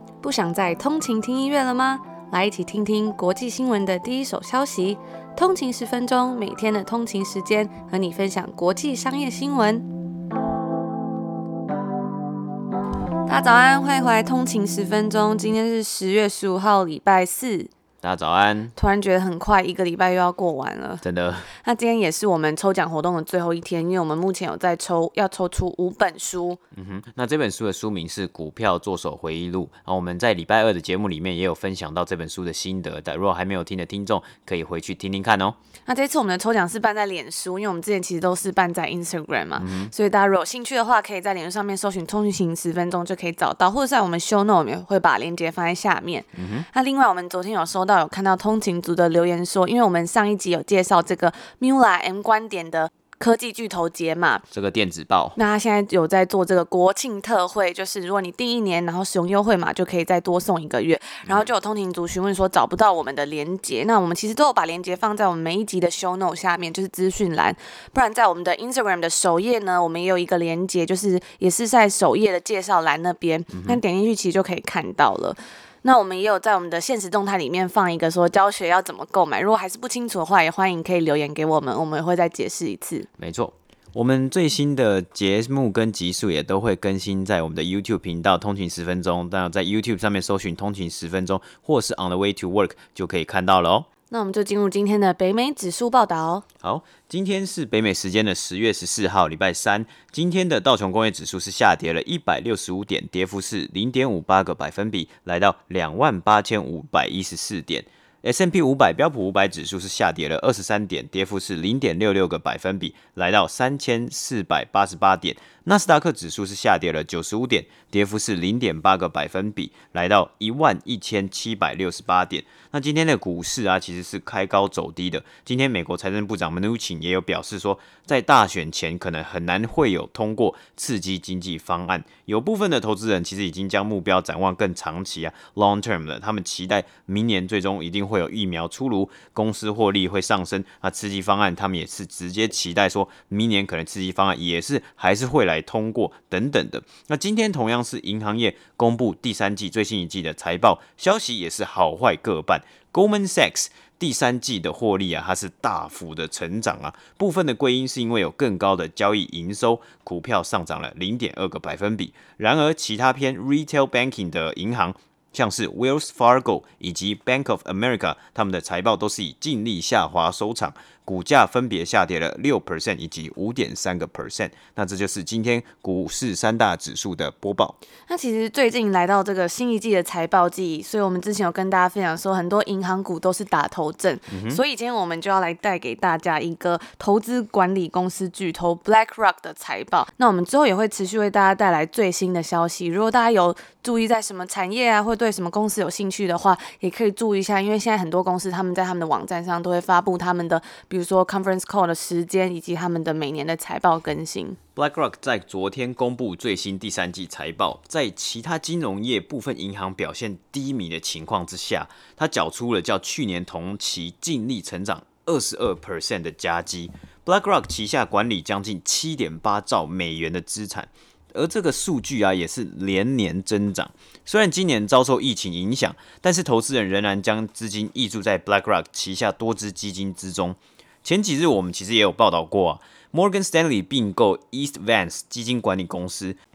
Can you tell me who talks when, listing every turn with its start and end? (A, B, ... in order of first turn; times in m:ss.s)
0:00.2-0:09.9 A
0:13.3-0:17.7 A
0:18.0-0:18.7 B
0:18.7-0:21.0 A
0:21.0-0:21.5 B
0:21.6-0:26.6 A
0:26.7-0:35.6 B
0:35.9-0:54.4 A
0:39.6-0:39.9 B
0:46.3-0:46.6 B
0:54.5-0:55.4 B
0:55.4-1:23.1 A
1:13.5-1:13.8 B
1:23.2-1:33.9 B
1:34.1-1:36.4 A
1:36.6-2:57.8 B
2:58.1-3:24.6 A
3:04.3-3:04.6 B
3:24.8-3:56.4 B